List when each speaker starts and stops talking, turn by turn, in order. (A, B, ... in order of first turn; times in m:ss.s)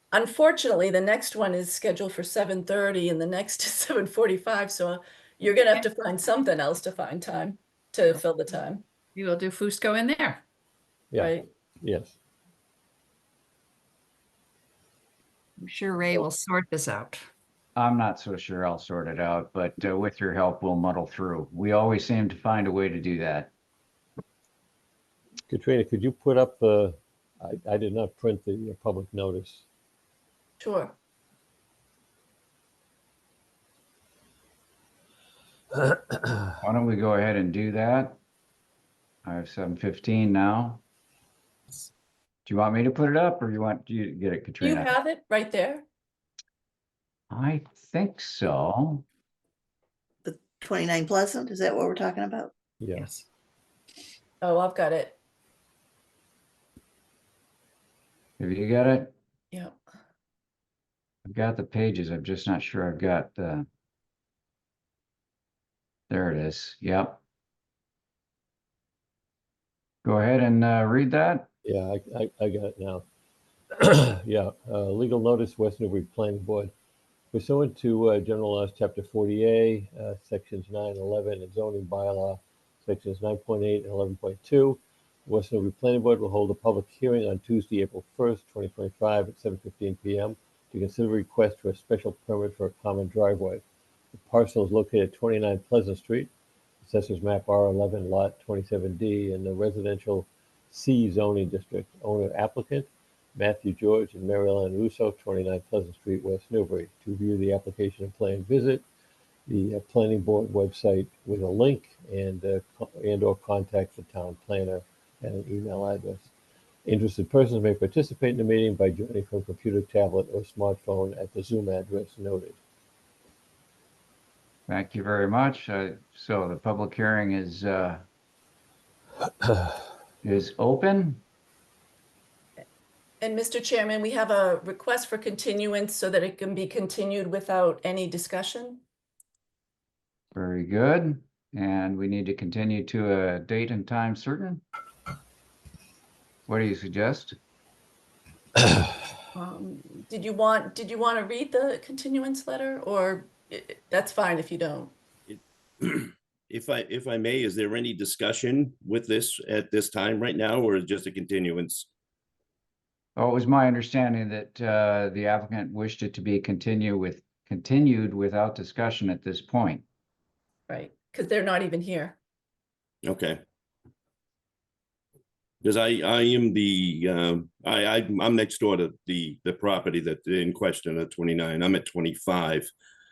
0:00.1-0:08.8 A
0:09.1-0:10.4 B
0:11.1-0:12.2 C
0:11.2-0:11.4 A
0:15.6-0:17.3 B
0:17.8-0:23.5 D
0:25.5-0:29.6 C
0:30.6-0:30.9 A
0:36.6-0:38.2 D
0:39.2-0:40.8 D
0:42.4-0:44.9 D
0:44.6-0:45.8 A
0:47.3-0:49.0 D
0:50.2-0:52.5 E
0:52.8-0:53.1 C
0:54.4-0:55.2 A
0:58.4-0:59.1 D
1:01.3-1:03.6 D
1:06.1-1:07.2 D
1:10.0-1:11.5 D
1:11.6-1:13.0 C
1:13.7-1:16.7 C
1:17.3-1:33.6 C
1:34.1-1:36.3 C
1:36.8-1:48.8 C
1:49.5-1:56.3 C
1:56.8-2:02.6 C
2:04.7-2:08.0 D
2:10.2-2:11.2 D
2:13.2-2:18.8 A
2:20.3-2:24.6 D
2:26.5-2:27.3 D
2:29.3-2:34.9 A
2:35.3-2:41.9 F
2:43.2-2:49.8 D
2:50.7-2:52.2 A
2:53.0-2:53.4 F
2:55.6-3:02.7 F